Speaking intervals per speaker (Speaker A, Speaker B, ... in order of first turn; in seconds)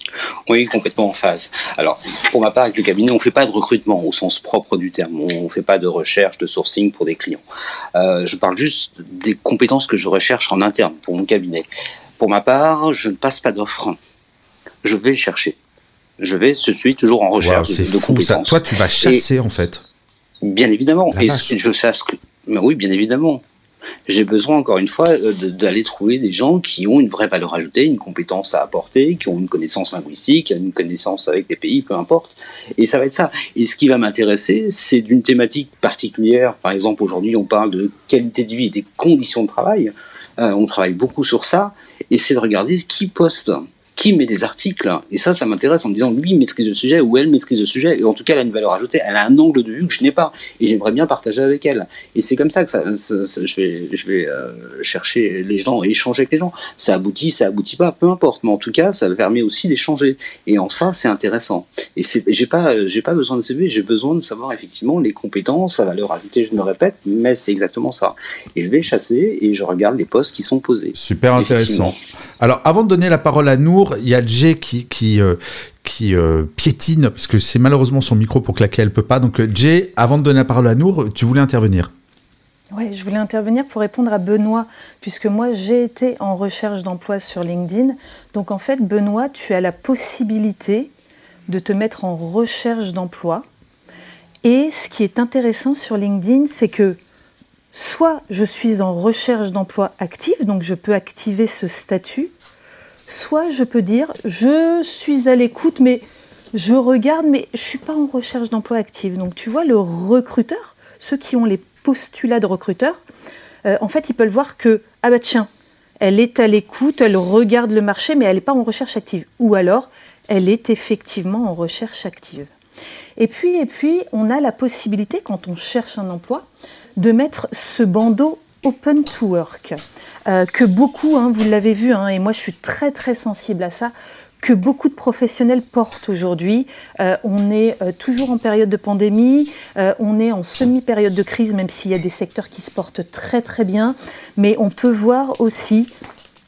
Speaker A: 0.5-7.4, 7.9-11.7, 12.2-14.0, 14.8-15.6, 16.2-19.2, 20.4-23.4, 24.1-72.0
Speaker B: 17.4-19.8, 21.1-21.5, 70.9-81.9
Speaker C: 82.7-90.9, 91.5-93.5, 94.4-97.0, 97.7-102.3, 103.1-113.0, 113.6-115.5, 116.0-122.5, 123.2-145.9